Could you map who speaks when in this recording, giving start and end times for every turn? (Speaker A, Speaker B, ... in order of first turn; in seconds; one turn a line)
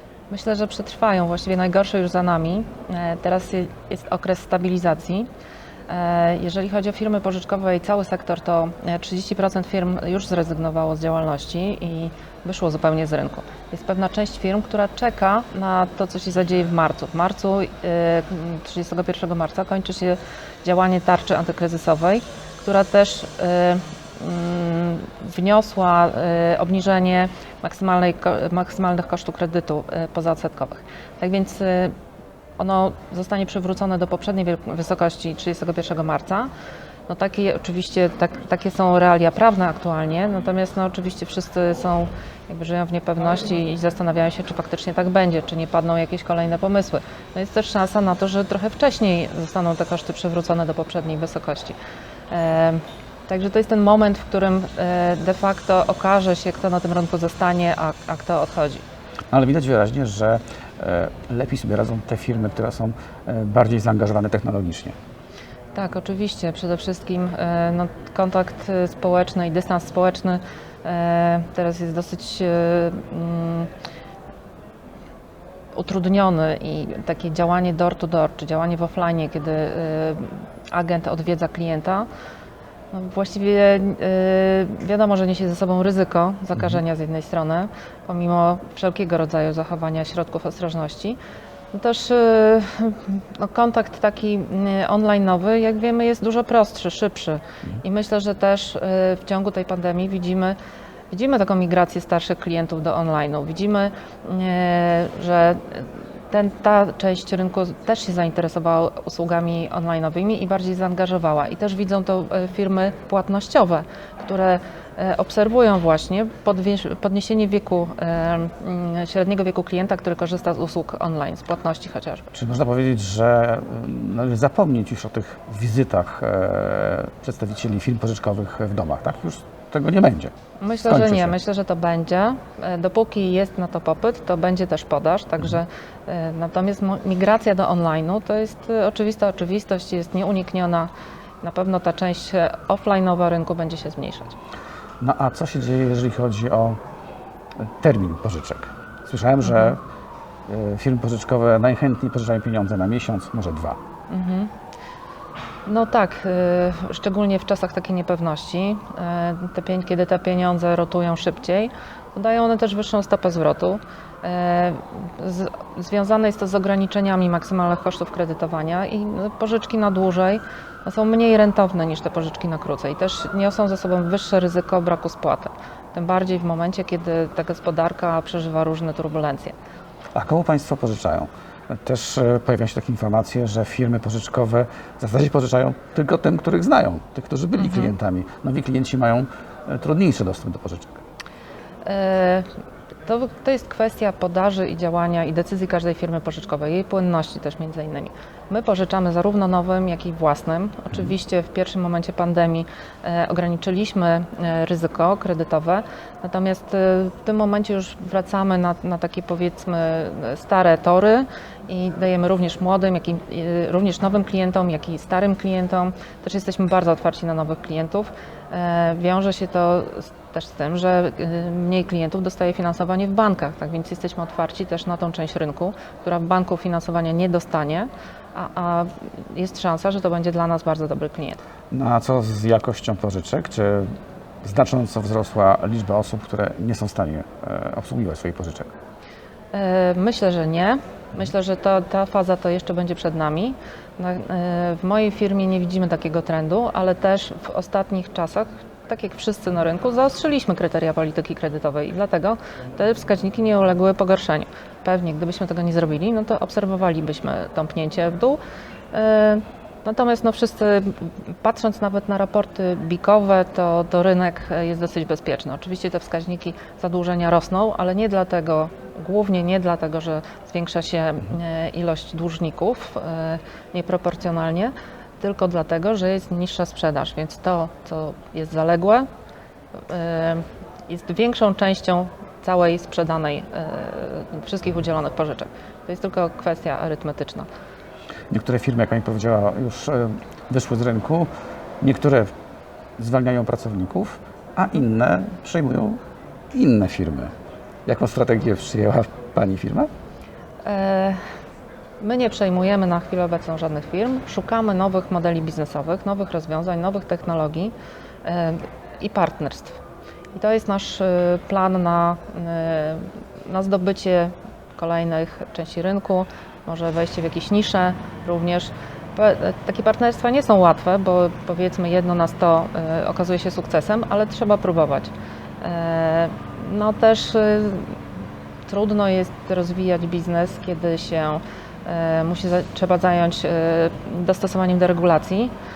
Speaker A: 0.3-5.3
Speaker A: 5.9-31.9
Speaker A: 32.6-36.5
Speaker A: 37.1-51.8
Speaker A: 52.3-58.8
Speaker B: 59.3-65.0
Speaker A: 65.8-73.7
Speaker A: 75.8-82.1
Speaker A: 82.9-91.2
Speaker A: 91.7-100.6
Speaker A: 101.1-122.3
Speaker B: 122.3-130.3
Speaker A: 130.6-140.9
Speaker B: 130.8-131.3
Speaker A: 141.4-144.3
Speaker B: 145.0-146.8
Speaker B: 147.6-149.8
Speaker A: 149.4-149.8
Speaker B: 150.5-153.8
Speaker A: 154.1-154.5
Speaker A: 155.7-179.5
Speaker B: 180.1-190.9
Speaker A: 187.6-187.9
Speaker A: 191.8-192.5
Speaker A: 193.1-231.4
Speaker B: 231.7-233.9
Speaker B: 234.4-238.7
Speaker A: 239.5-258.4
Speaker A: 258.9-279.1
Speaker A: 279.9-287.5
Speaker B: 288.3-291.3
Speaker B: 291.8-292.3
Speaker B: 293.0-296.0
Speaker B: 296.5-297.3
Speaker B: 297.9-299.9
Speaker A: 300.6-301.2
Speaker A: 302.0-307.7
Speaker A: 308.2-309.8
Speaker A: 310.3-328.0
Speaker A: 328.7-335.5